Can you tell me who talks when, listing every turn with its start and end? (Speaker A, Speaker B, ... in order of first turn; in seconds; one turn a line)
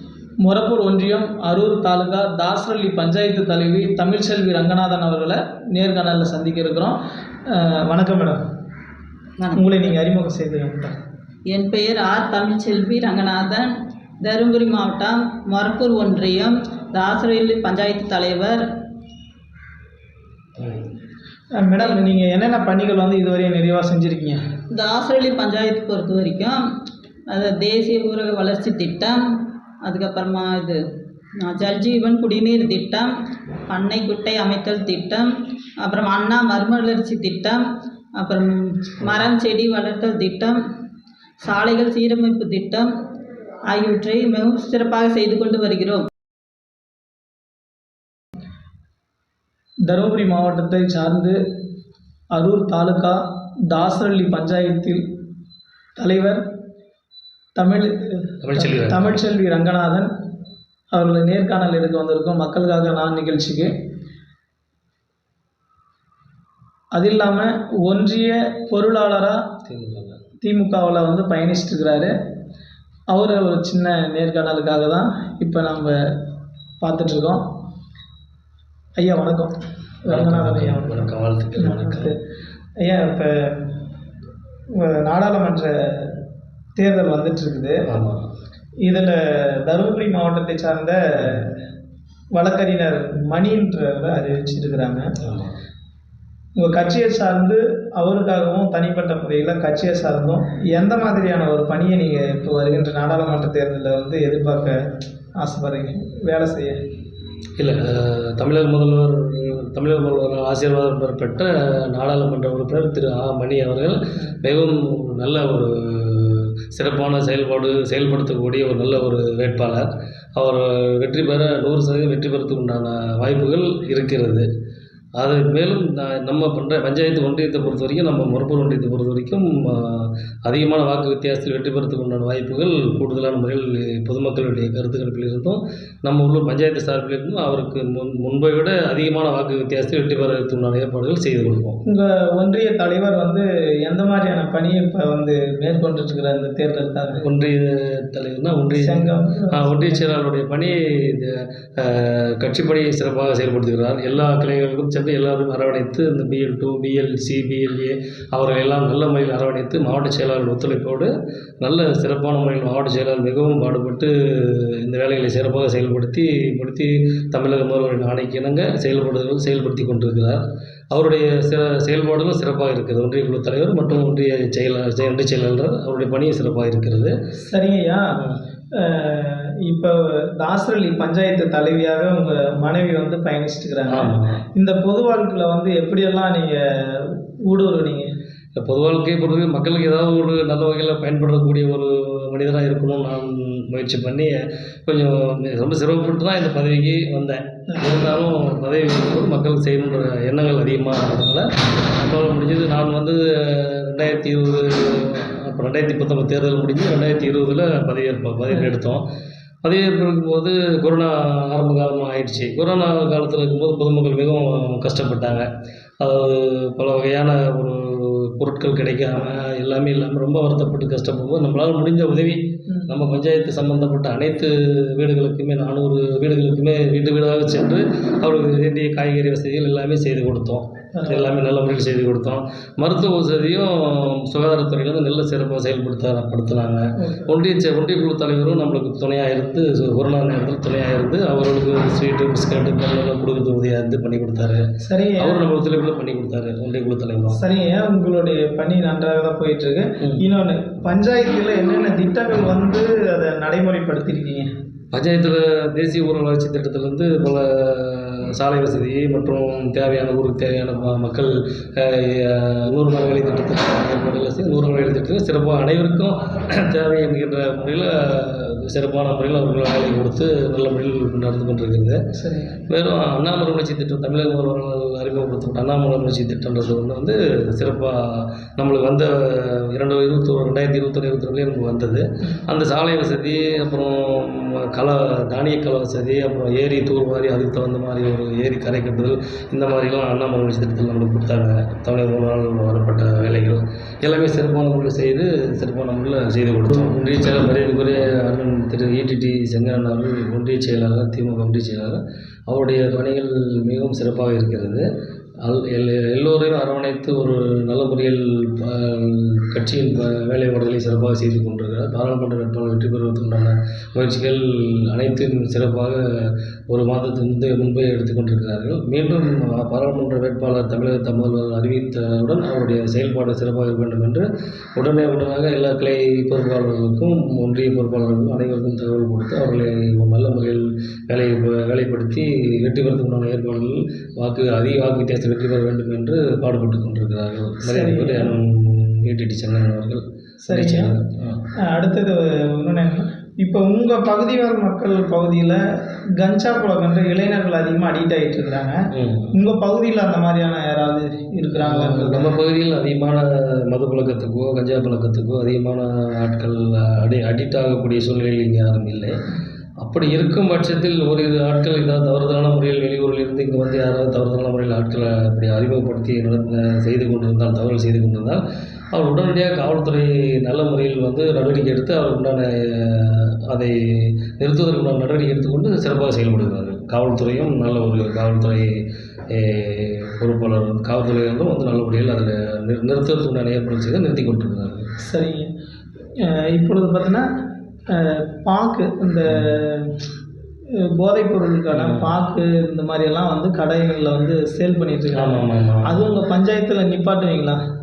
Speaker A: 0.4-7.0
Speaker A: 7.5-8.4
Speaker B: 9.4-9.9
Speaker A: 9.5-10.9
Speaker B: 11.5-18.6
Speaker A: 21.6-24.4
Speaker B: 24.7-26.6
Speaker B: 27.3-29.2
Speaker B: 29.8-30.8
Speaker B: 31.4-33.1
Speaker B: 33.7-37.6
Speaker B: 38.2-40.6
Speaker B: 41.4-42.9
Speaker B: 43.7-46.1
Speaker A: 49.9-51.4
Speaker A: 52.3-55.0
Speaker A: 56.0-56.4
Speaker A: 57.6-60.1
Speaker C: 58.4-59.2
Speaker A: 60.9-63.7
Speaker A: 66.9-69.4
Speaker C: 69.7-70.2
Speaker A: 70.4-72.1
Speaker A: 73.1-76.0
Speaker A: 76.8-77.4
Speaker A: 79.0-79.5
Speaker A: 80.0-82.2
Speaker C: 80.1-82.1
Speaker A: 82.8-83.7
Speaker A: 84.8-86.2
Speaker A: 86.8-87.8
Speaker C: 87.9-88.2
Speaker A: 88.9-91.6
Speaker A: 92.3-95.0
Speaker C: 95.2-95.6
Speaker A: 96.6-104.8
Speaker A: 105.4-106.8
Speaker C: 107.6-124.5
Speaker C: 125.2-141.8
Speaker A: 141.9-147.2
Speaker C: 147.2-149.0
Speaker A: 148.8-150.1
Speaker C: 149.5-161.1
Speaker C: 161.6-177.1
Speaker A: 177.5-178.2
Speaker C: 178.1-178.4
Speaker A: 178.8-188.1
Speaker C: 183.9-184.4
Speaker C: 188.6-209.1
Speaker C: 209.6-215.5
Speaker C: 216.0-244.6
Speaker A: 230.9-231.4
Speaker A: 237.0-237.3
Speaker A: 244.8-245.4
Speaker C: 245.2-247.4
Speaker A: 247.3-254.5
Speaker C: 254.9-272.0
Speaker A: 272.1-272.6
Speaker C: 272.7-304.9
Speaker C: 305.4-341.4
Speaker A: 337.6-338.3
Speaker A: 340.4-341.0
Speaker A: 341.7-345.6
Speaker A: 346.2-348.8
Speaker C: 348.9-349.3
Speaker A: 349.3-352.3
Speaker C: 351.6-359.2
Speaker C: 359.8-368.4
Speaker C: 368.9-384.9
Speaker A: 385.0-385.5
Speaker A: 386.2-387.2
Speaker A: 387.9-389.9
Speaker A: 391.0-397.6
Speaker C: 391.7-392.1
Speaker C: 395.1-396.1